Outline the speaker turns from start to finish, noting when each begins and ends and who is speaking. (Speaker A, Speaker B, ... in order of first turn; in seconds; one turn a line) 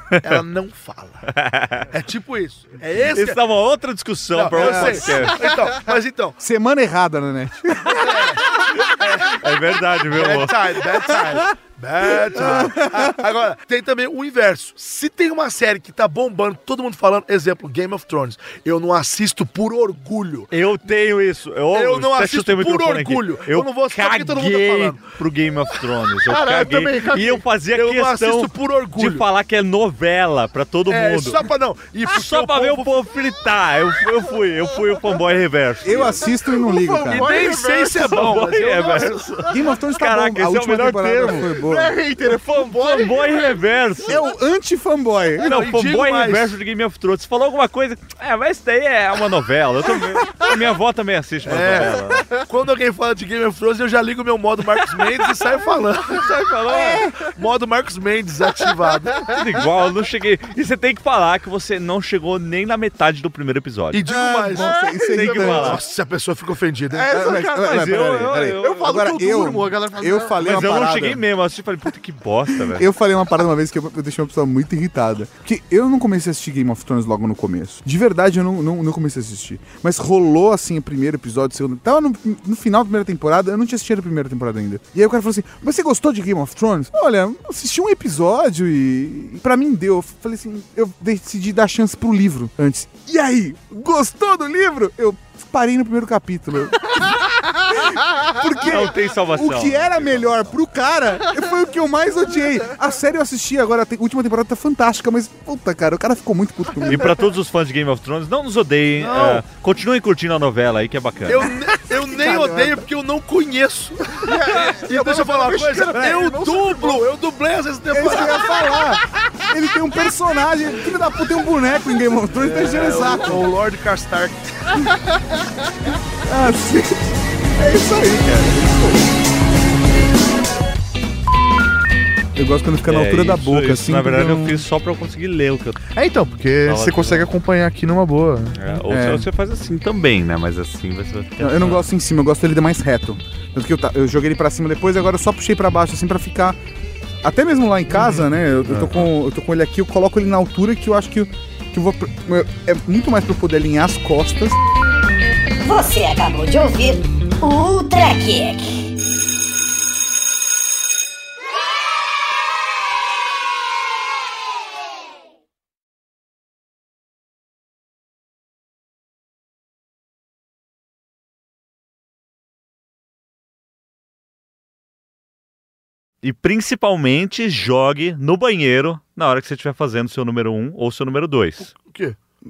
Speaker A: 0.1-0.4
Speaker B: 0.2-1.3
Speaker A: 1.3-1.9
Speaker B: 1.9-3.4
Speaker A: 3.1-5.4
Speaker B: 4.3-6.4
Speaker C: 4.6-5.3
Speaker C: 6.4-8.4
Speaker B: 8.0-8.4
Speaker B: 9.0-9.5
Speaker A: 9.2-10.6
Speaker B: 10.1-20.5
Speaker C: 12.3-13.2
Speaker A: 20.5-31.4
Speaker B: 21.7-25.0
Speaker D: 26.2-27.5
Speaker B: 27.7-29.3
Speaker B: 30.9-33.0
Speaker A: 32.1-36.3
Speaker C: 35.8-37.3
Speaker D: 35.9-38.2
Speaker B: 37.1-39.4
Speaker A: 37.8-41.5
Speaker C: 39.5-42.0
Speaker D: 41.4-43.6
Speaker A: 42.2-44.2
Speaker C: 44.1-45.6
Speaker B: 45.4-46.6
Speaker A: 45.4-52.3
Speaker B: 51.5-56.3
Speaker D: 52.2-52.4
Speaker A: 56.0-57.1
Speaker D: 56.2-57.4
Speaker B: 57.3-59.2
Speaker D: 58.6-59.4
Speaker A: 59.3-64.0
Speaker B: 63.9-67.2
Speaker C: 64.1-65.8
Speaker D: 64.5-65.7
Speaker A: 65.3-65.8
Speaker D: 66.9-70.6
Speaker C: 67.1-71.2
Speaker A: 67.5-69.2
Speaker A: 70.4-72.9
Speaker C: 72.5-107.2
Speaker A: 98.6-100.6
Speaker A: 106.9-111.5
Speaker B: 109.0-109.4
Speaker B: 111.3-118.5
Speaker D: 112.0-112.8
Speaker D: 114.2-117.1
Speaker C: 116.0-116.2
Speaker C: 117.9-123.5
Speaker B: 122.3-124.5
Speaker C: 126.3-129.0
Speaker C: 132.3-134.6
Speaker A: 132.9-135.8
Speaker D: 135.9-138.6
Speaker A: 136.6-137.3
Speaker A: 138.6-141.9
Speaker C: 138.9-139.3
Speaker C: 141.4-146.6
Speaker C: 147.2-154.6
Speaker A: 148.7-149.1
Speaker E: 155.6-158.9
Speaker A: 176.2-181.7
Speaker B: 181.7-182.2